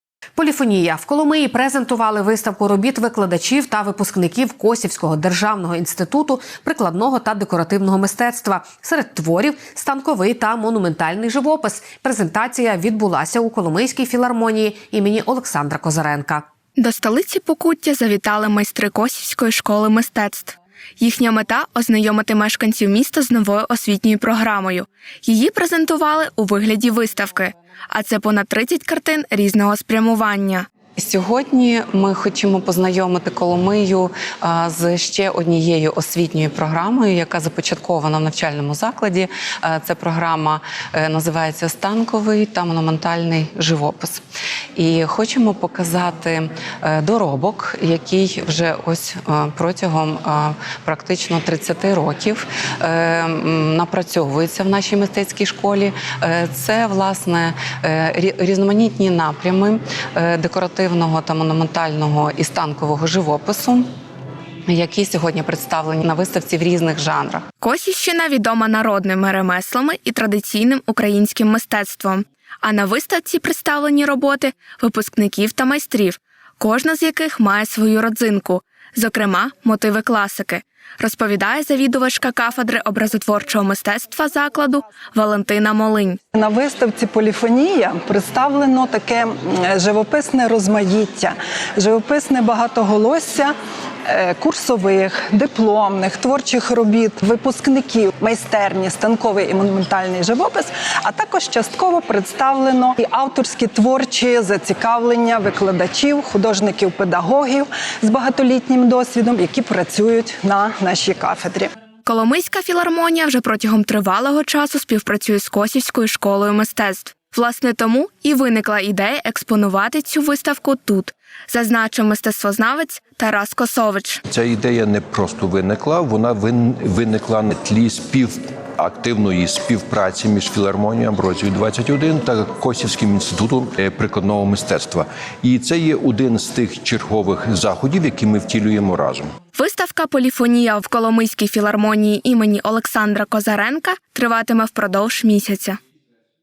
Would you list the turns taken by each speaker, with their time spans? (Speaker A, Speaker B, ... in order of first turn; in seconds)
Speaker A: 0.4-16.5
Speaker B: 16.8-30.7, 67.6-86.2, 112.0-124.2, 139.5-145.8
Speaker C: 31.0-64.0, 64.7-67.5
Speaker D: 86.3-93.5, 94.1-111.7
Speaker E: 124.3-139.3